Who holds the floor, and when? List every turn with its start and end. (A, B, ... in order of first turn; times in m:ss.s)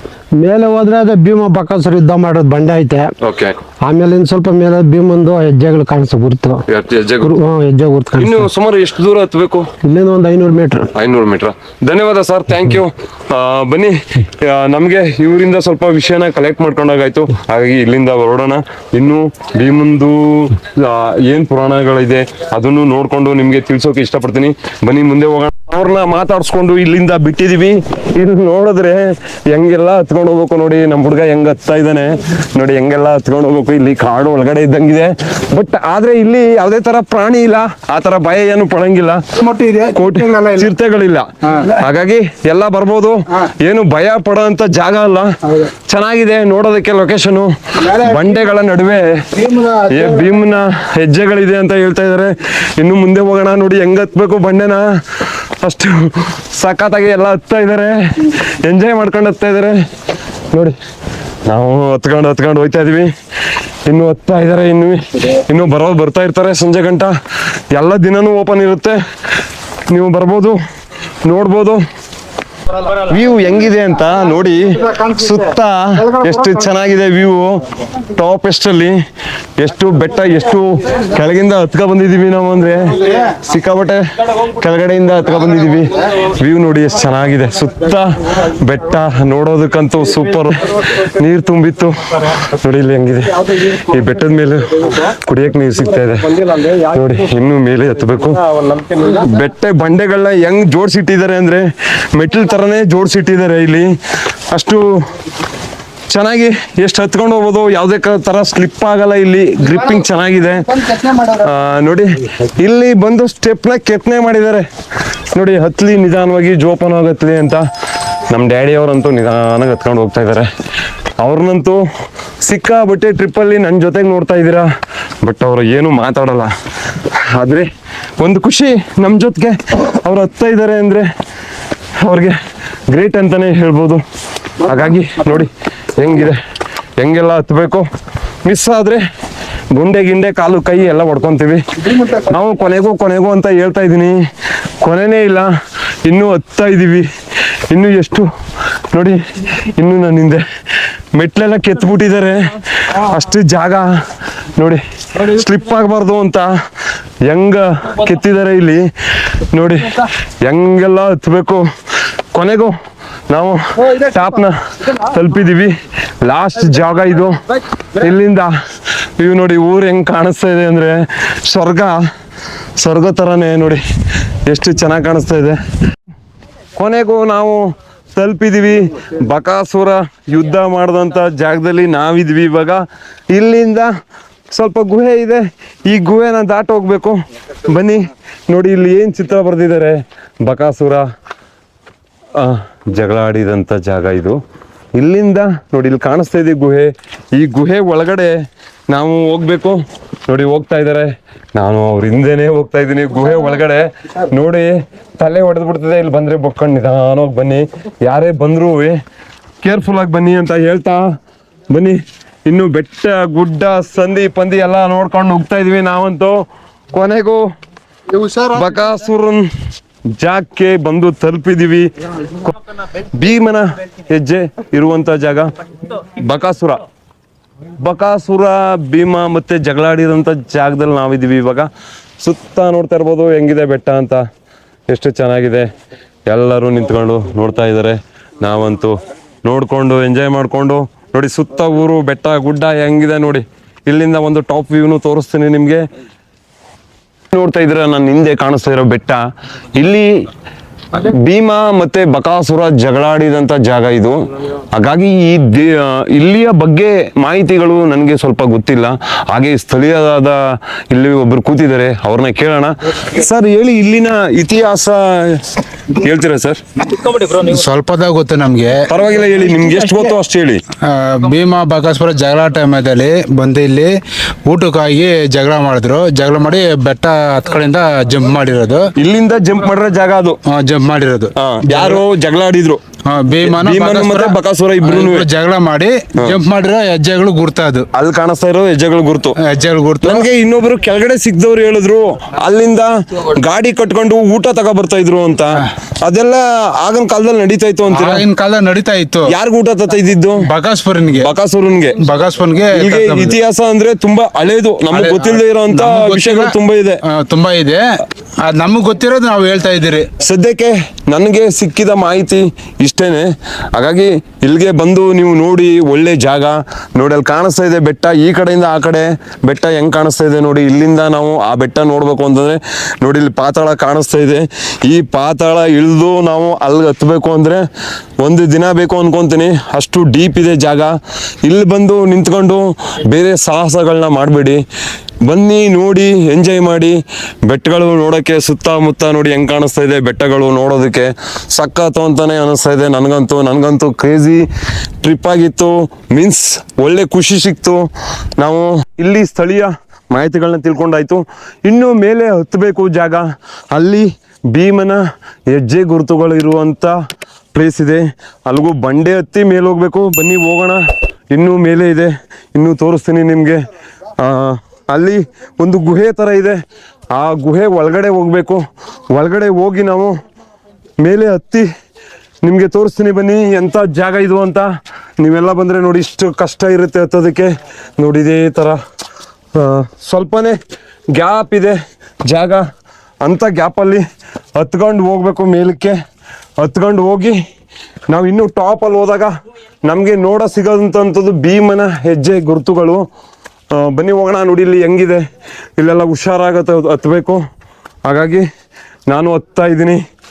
0:00.4-0:03.1 A
0:03.2-0:03.6 B
0:03.8-0:06.6 A
0:06.7-0:07.3 B
0:07.2-0:08.5 A
0:08.2-0:09.7 B
0:09.8-0:10.9 A
0:10.9-0:39.2 B
0:39.4-0:40.7 C
0:39.9-0:49.3 B
0:41.5-0:41.7 C
0:47.8-0:48.3 C
0:49.4-0:50.3 C
0:49.8-0:54.8 B
0:55.6-0:59.8 B
1:01.5-1:03.1 B
1:03.9-1:07.1 B
1:07.7-1:09.0 B
1:09.9-1:10.6 B
1:11.2-1:11.8 B
1:12.9-1:19.0 B
1:19.6-1:44.0 B
1:44.5-1:45.1 B
1:46.1-1:54.6 B
1:55.3-1:57.6 B
1:58.2-2:00.5 B
2:01.2-2:01.8 B
2:02.4-2:04.7 B
2:05.2-2:11.1 B
2:12.0-2:12.4 B
2:12.9-2:14.0 B
2:14.6-2:16.4 B
2:17.0-2:17.8 B
2:18.4-2:19.0 B
2:19.7-2:24.2 B
2:24.8-2:25.5 B
2:26.0-2:27.1 B
2:27.7-2:28.3 B
2:28.9-2:30.4 B
2:31.1-2:34.0 B
2:34.5-2:36.5 B
2:37.2-2:41.7 B
2:42.3-2:42.7 B
2:43.3-2:48.5 B
2:49.2-2:52.0 B
2:52.8-2:53.8 B
2:54.4-2:55.6 B
2:56.8-3:03.9 B
3:04.5-3:11.0 B
3:12.4-3:14.4 B
3:14.9-3:29.0 B
3:29.6-3:31.1 B
3:31.7-3:37.4 B
3:38.4-3:39.5 B
3:40.2-3:46.8 B
3:47.8-3:51.7 B
3:52.2-3:54.2 B
3:54.9-3:55.7 B
3:56.3-4:05.8 B
4:07.3-4:09.2 B
4:09.7-4:10.2 B
4:10.9-4:26.6 B
4:27.0-4:28.9 C
4:28.9-4:30.6 B
4:30.8-4:33.9 C
4:34.4-4:38.9 C
4:39.0-4:40.4 B
4:40.5-4:42.0 C
4:41.4-4:42.8 B
4:43.1-4:47.8 C
4:43.4-4:45.3 B
4:47.9-4:49.4 B
4:49.4-4:50.2 C
4:50.0-4:58.2 B
4:57.9-4:59.3 C
4:59.3-5:00.5 B
5:00.4-5:01.3 C
5:01.1-5:02.0 B
5:02.0-5:03.4 C
5:02.7-5:07.0 B
5:04.9-5:07.8 C
5:08.4-5:10.1 C
5:10.2-5:27.6 B
5:28.2-5:34.6 B
5:35.2-5:44.5 B
5:45.0-5:57.0 B
5:57.5-6:03.6 B
6:04.2-6:06.6 B
6:07.1-6:10.1 B
6:11.0-6:11.7 B
6:12.4-6:18.8 B
6:19.5-6:20.6 B
6:21.1-6:22.6 B
6:23.2-6:24.0 B
6:24.6-6:26.0 B
6:26.6-6:27.4 B
6:28.1-6:29.3 B
6:29.8-6:33.0 B
6:33.7-6:35.2 B
6:35.8-6:37.4 B
6:38.0-6:38.4 B
6:39.1-6:40.0 B